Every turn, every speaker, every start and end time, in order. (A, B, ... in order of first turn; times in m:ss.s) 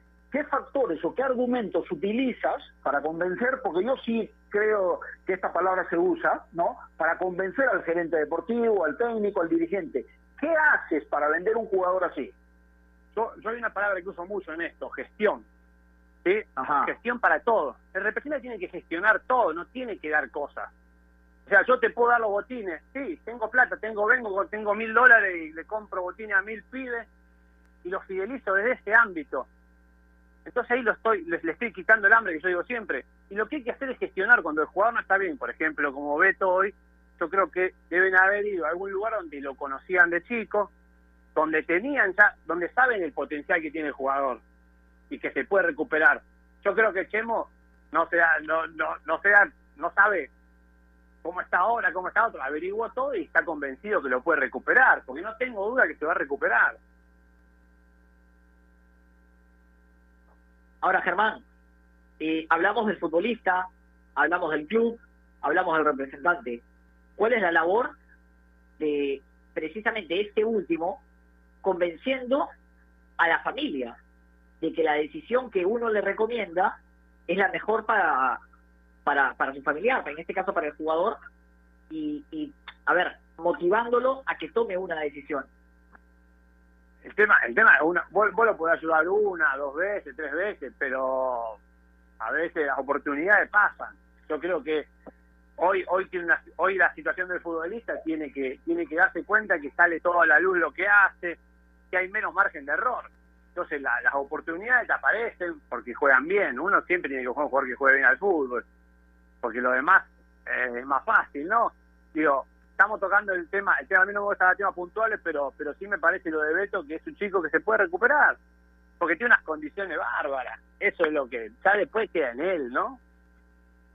0:00.3-0:12.3 A
0:13.2-0:15.4 B
0:16.2-0:20.7 B
0:16.6-0:16.9 A
0:21.5-0:27.1 B
0:27.8-0:29.5 B
0:30.5-0:40.7 B
0:41.4-0:44.4 B
0:45.1-0:50.3 B
0:51.2-0:56.8 B
1:00.8-1:01.4 C
1:02.2-1:06.6 C
1:07.2-1:07.9 C
1:08.8-1:11.0 C
1:11.6-1:12.5 C
1:13.2-1:14.0 C
1:14.6-1:16.8 C
1:17.3-1:18.4 C
1:19.1-1:21.2 C
1:21.9-1:25.5 C
1:27.0-1:31.6 B
1:32.2-1:34.9 B
1:35.6-1:41.4 B
1:41.9-1:48.6 B
1:49.4-1:58.4 B
1:59.0-2:03.0 B